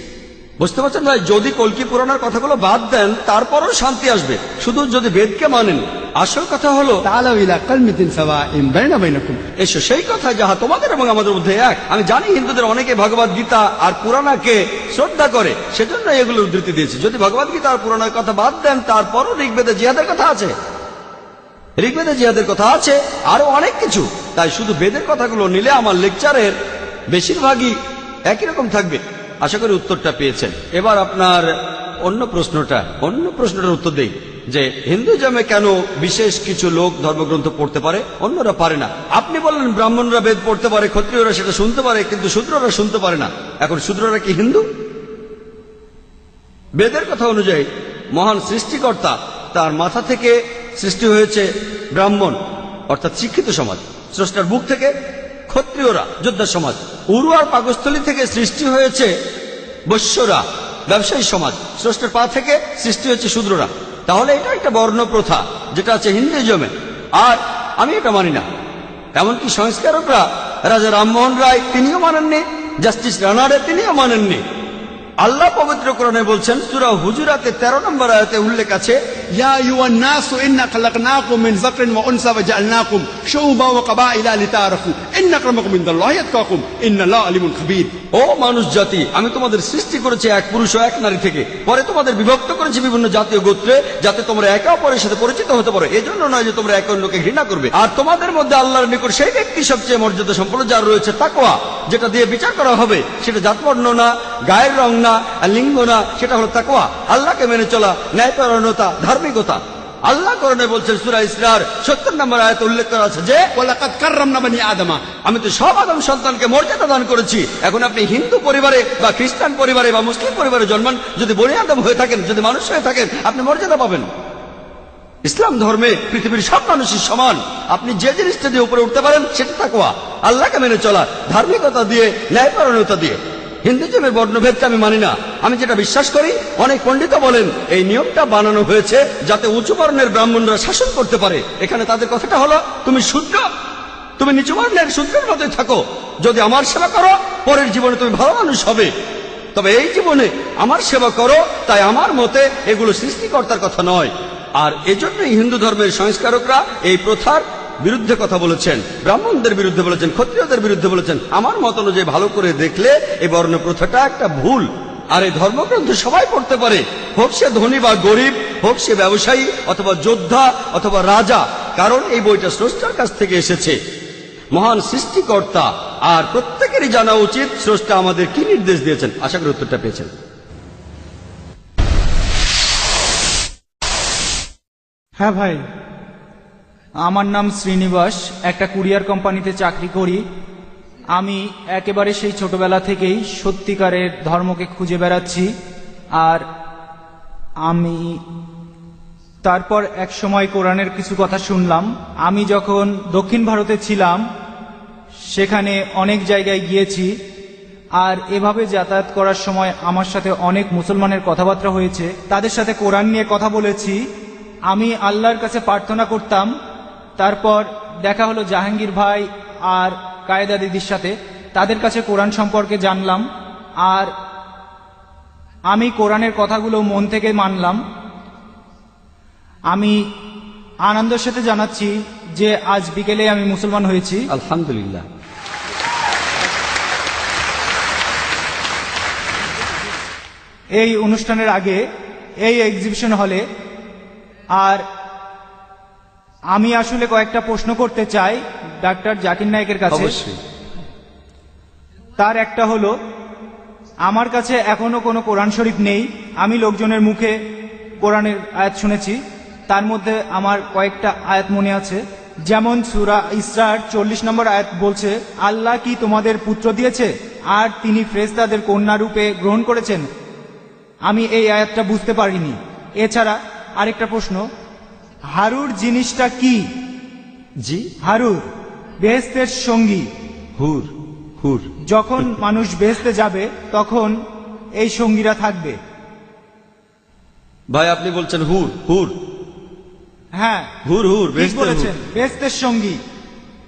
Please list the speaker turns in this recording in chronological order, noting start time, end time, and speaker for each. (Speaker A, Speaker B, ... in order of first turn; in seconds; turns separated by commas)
Speaker A: 0.6-7.0, Speaker B: 7.0-9.4, Speaker A: 9.6-20.5, Speaker A: 21.8-26.5, Speaker A: 27.1-27.8, Speaker A: 28.3-31.5, Speaker A: 32.0-44.6, Speaker A: 46.8-52.4, Speaker A: 52.9-54.9, Speaker A: 55.5-59.1, Speaker A: 59.9-68.5, Speaker A: 69.2-74.4, Speaker A: 75.2-79.0, Speaker B: 79.4-88.0, Speaker A: 88.1-113.4, Speaker B: 113.6-115.0, Speaker A: 115.2-124.1, Speaker A: 125.2-143.5, Speaker A: 144.2-148.9, Speaker A: 149.5-173.8, Speaker A: 174.5-180.1, Speaker C: 185.2-185.6, Speaker C: 187.0-190.2, Speaker C: 191.1-195.5, Speaker C: 196.2-196.4, Speaker C: 197.6-198.2, Speaker C: 199.4-204.2, Speaker C: 205.3-207.1, Speaker C: 208.0-214.0, Speaker C: 214.7-216.5, Speaker C: 217.2-223.2, Speaker C: 223.8-224.1, Speaker C: 225.7-227.8, Speaker C: 229.7-230.0, Speaker C: 230.8-234.3, Speaker A: 234.3-235.0, Speaker C: 240.8-241.8, Speaker C: 242.4-243.4, Speaker C: 244.6-244.8, Speaker C: 246.5-250.2, Speaker A: 249.9-250.4, Speaker C: 252.2-252.9, Speaker C: 254.0-257.4, Speaker C: 258.0-270.0, Speaker C: 271.1-274.4, Speaker C: 275.3-276.6, Speaker A: 277.6-277.9, Speaker C: 278.0-278.4, Speaker C: 279.0-280.1, Speaker A: 280.6-281.7, Speaker C: 281.9-284.1, Speaker C: 284.8-285.8, Speaker A: 287.7-289.1, Speaker C: 290.4-290.7, Speaker A: 290.9-291.9, Speaker C: 291.4-293.0